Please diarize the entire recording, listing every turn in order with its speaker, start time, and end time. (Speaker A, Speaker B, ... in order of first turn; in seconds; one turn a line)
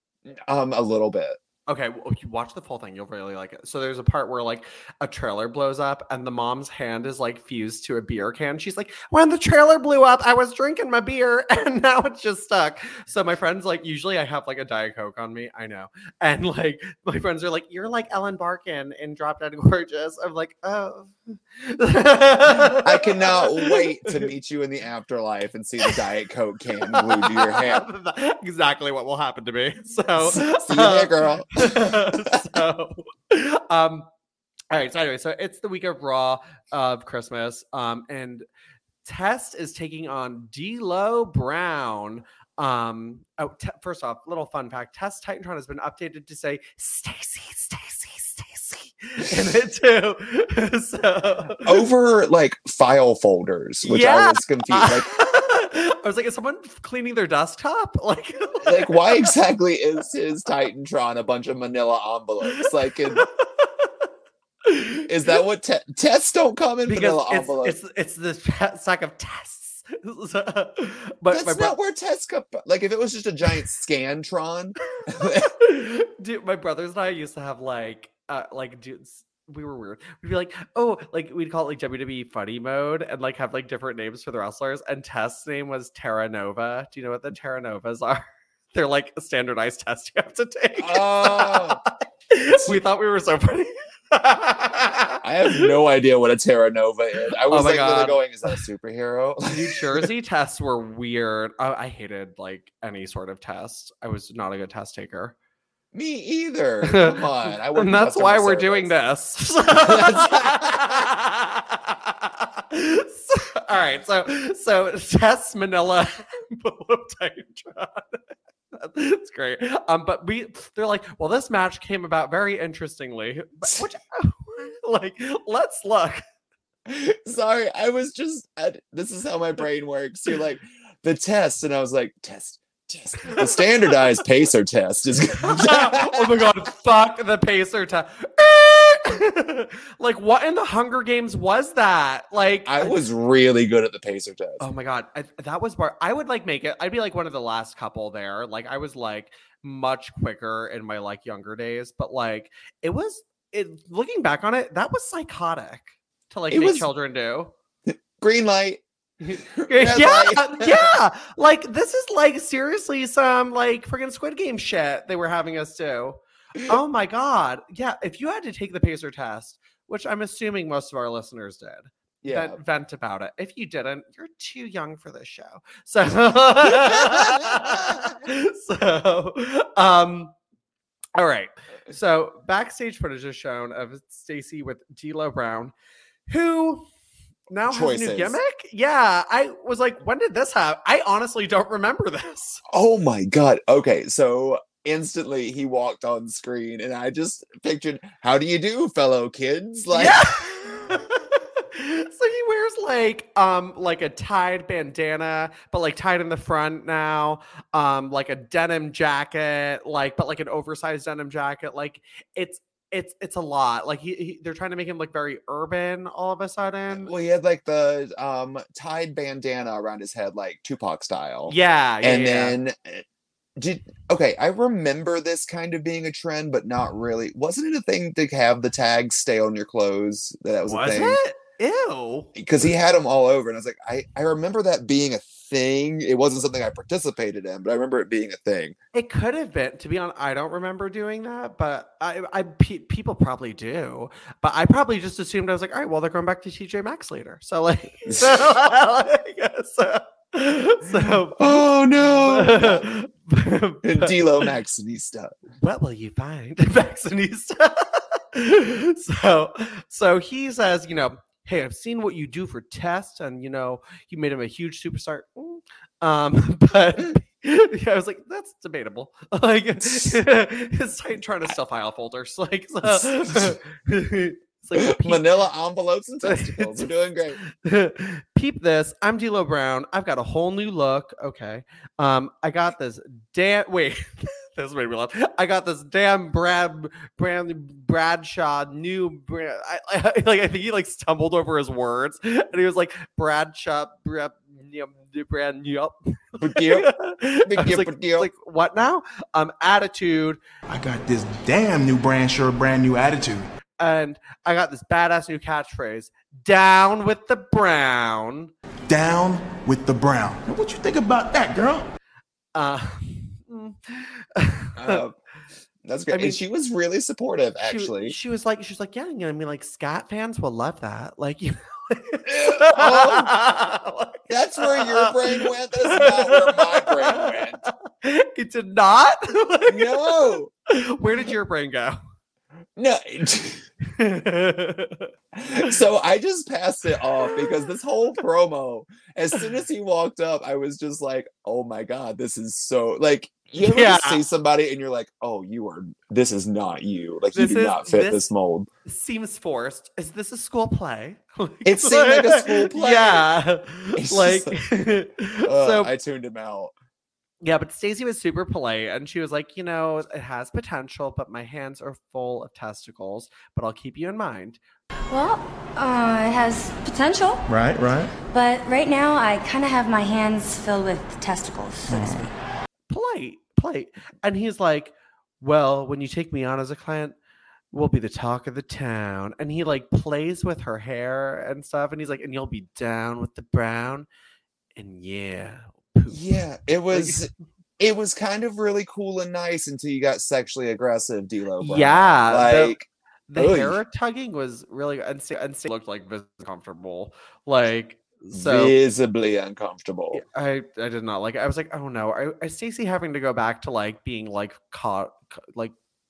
Speaker A: 0.3-1.4
Speaker B: 1.7-24.3
Speaker A: 22.5-27.8
Speaker B: 26.8-34.1
Speaker A: 30.2-32.4
Speaker B: 34.7-38.5
Speaker B: 39.0-51.8
Speaker A: 51.6-55.1
Speaker B: 53.8-59.3
Speaker A: 58.6-63.2
Speaker B: 62.5-63.9
Speaker B: 64.6-65.4
Speaker A: 65.1-67.8
Speaker B: 66.8-71.8
Speaker A: 71.3-75.5
Speaker B: 75.0-95.7
Speaker A: 90.8-91.8
Speaker A: 95.2-100.0
Speaker B: 97.5-98.6
Speaker B: 99.5-105.3
Speaker A: 105.9-108.9
Speaker B: 106.8-107.1
Speaker B: 107.7-118.2
Speaker A: 109.8-110.8
Speaker B: 118.7-126.2
Speaker A: 126.9-136.3
Speaker B: 133.2-134.0
Speaker B: 135.4-143.0
Speaker A: 142.7-144.6
Speaker B: 144.6-157.5
Speaker A: 156.5-156.9
Speaker A: 157.9-158.8
Speaker B: 159.2-180.3
Speaker A: 159.4-160.9
Speaker A: 172.2-172.6
Speaker A: 176.7-178.1
Speaker B: 181.1-185.7
Speaker B: 186.3-186.8
Speaker B: 187.5-192.6
Speaker A: 187.6-188.4
Speaker A: 192.7-200.2
Speaker B: 199.9-217.1
Speaker A: 216.9-223.0
Speaker B: 221.5-222.6
Speaker A: 223.6-231.2
Speaker B: 230.7-232.3
Speaker A: 232.3-238.8
Speaker B: 238.9-254.2
Speaker A: 248.1-248.3
Speaker A: 250.9-252.9
Speaker A: 253.8-255.3
Speaker B: 255.6-275.2
Speaker A: 272.9-273.5
Speaker A: 274.8-277.4
Speaker B: 276.2-276.9
Speaker B: 277.4-300.4
Speaker A: 296.4-296.9
Speaker A: 297.4-298.3
Speaker C: 300.7-303.5
Speaker B: 303.8-308.5
Speaker C: 308.9-311.9
Speaker B: 312.5-315.0
Speaker A: 314.8-315.1
Speaker A: 315.8-318.1
Speaker B: 316.1-316.4
Speaker B: 317.6-332.0
Speaker A: 322.2-323.3
Speaker A: 324.3-327.7
Speaker A: 329.7-330.5
Speaker A: 332.8-333.6
Speaker B: 333.9-335.1
Speaker A: 335.3-348.7
Speaker B: 343.6-344.2
Speaker B: 347.3-348.2
Speaker B: 348.9-355.9
Speaker A: 351.6-353.3
Speaker A: 354.0-354.6
Speaker A: 355.4-356.7
Speaker B: 357.4-364.6
Speaker D: 365.1-367.3
Speaker C: 367.5-368.1
Speaker D: 368.3-371.5
Speaker C: 371.9-372.3
Speaker B: 372.9-377.1
Speaker B: 377.7-384.1
Speaker B: 384.8-387.2
Speaker A: 386.1-393.8
Speaker B: 391.6-392.8
Speaker B: 393.3-398.7
Speaker A: 398.3-400.2
Speaker B: 400.1-405.7